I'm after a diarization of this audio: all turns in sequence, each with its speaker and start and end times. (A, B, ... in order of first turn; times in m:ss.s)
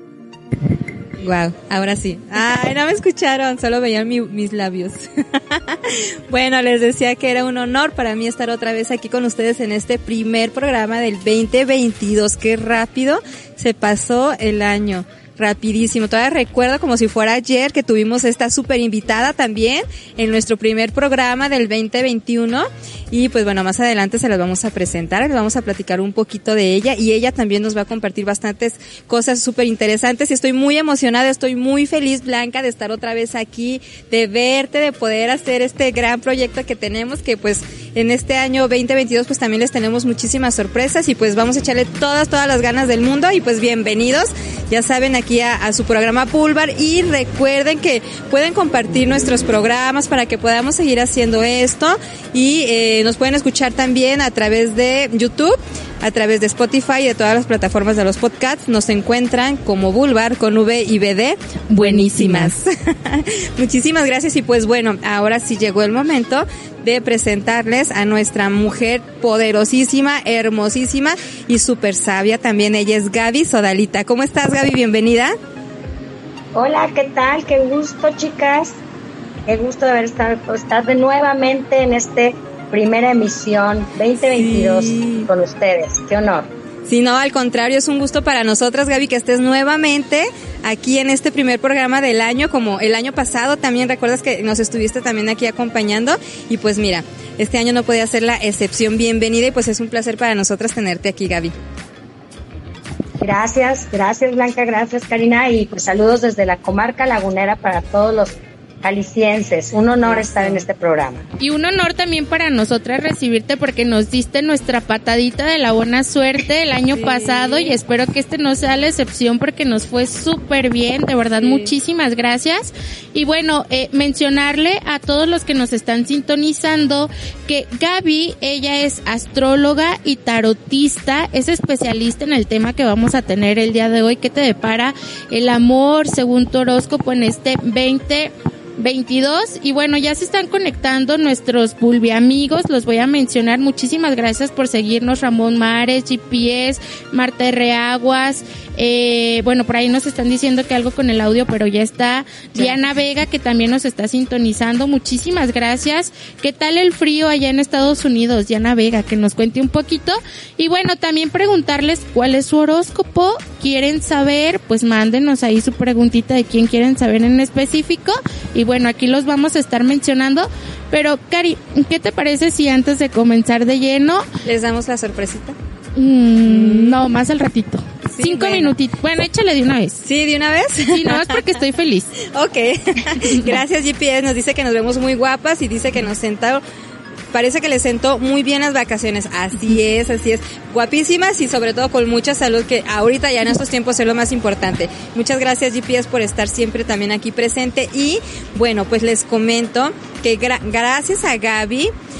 0:01.2-1:15.3 A
1:01.7-1:02.5 B
1:16.5-1:18.8 C
1:19.5-1:26.5 C
1:24.3-1:25.3 A
1:26.8-1:41.5 A
1:43.2-1:51.2 C
1:50.0-1:50.6 A
1:51.4-2:54.3 B
1:56.9-1:57.8 A
2:01.4-2:01.7 A
2:32.5-2:32.8 A
2:54.4-2:55.6 A
2:56.0-3:00.0 B
2:56.4-2:57.0 A
2:58.1-2:58.7 A
3:00.0-3:01.4 A
3:00.9-3:02.1 B
3:02.3-3:06.6 A
3:03.2-3:03.5 B
3:07.3-3:21.9 A